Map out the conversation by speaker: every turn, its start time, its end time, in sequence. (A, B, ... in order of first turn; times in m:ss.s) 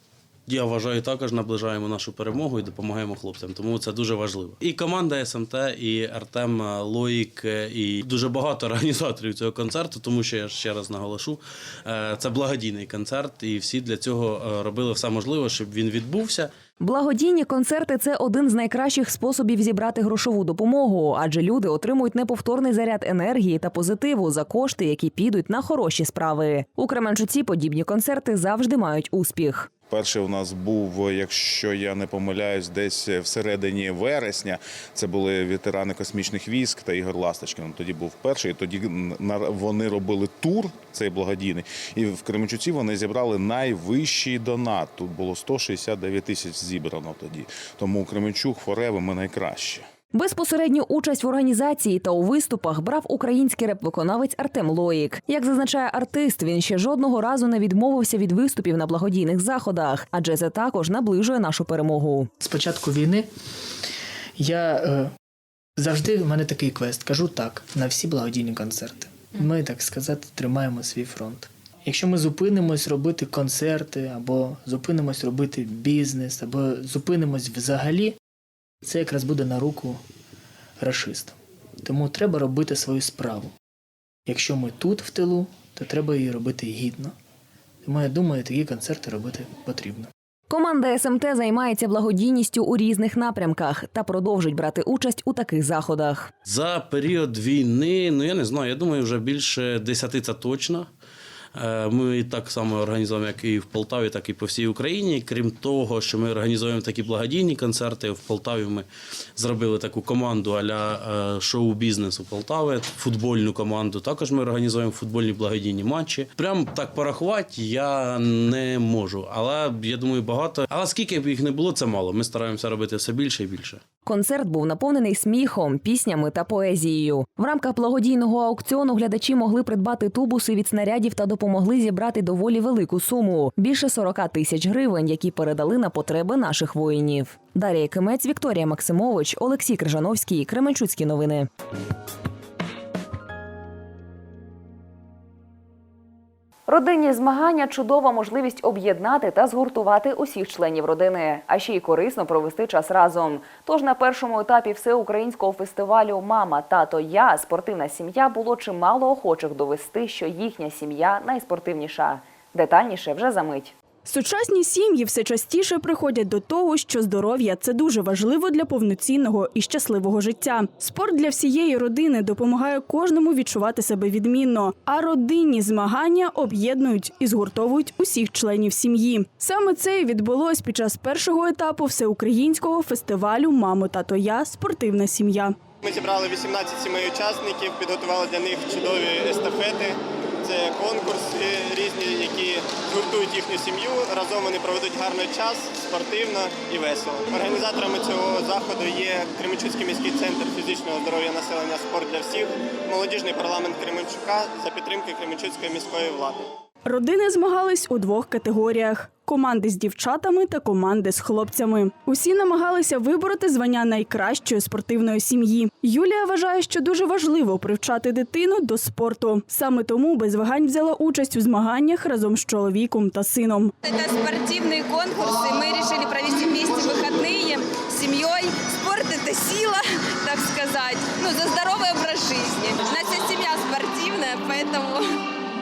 0:00.5-0:16.5 A
0:16.8-0:29.7 B
0:29.9-0:49.8 C
0:50.1-1:02.3 B
1:02.4-1:03.3 D
1:04.4-1:05.1 D
1:05.8-1:18.2 D
1:18.8-1:20.0 D
1:20.8-1:23.5 D
1:24.3-1:27.1 D
1:27.8-1:30.1 D
1:30.5-1:36.3 B
1:36.4-1:40.9 A
1:41.6-2:03.8 A
2:04.0-2:21.5 B
2:26.7-2:43.7 B
2:44.0-3:05.5 E
3:05.8-3:26.4 F
3:26.8-3:43.7 E
3:43.8-3:55.1 G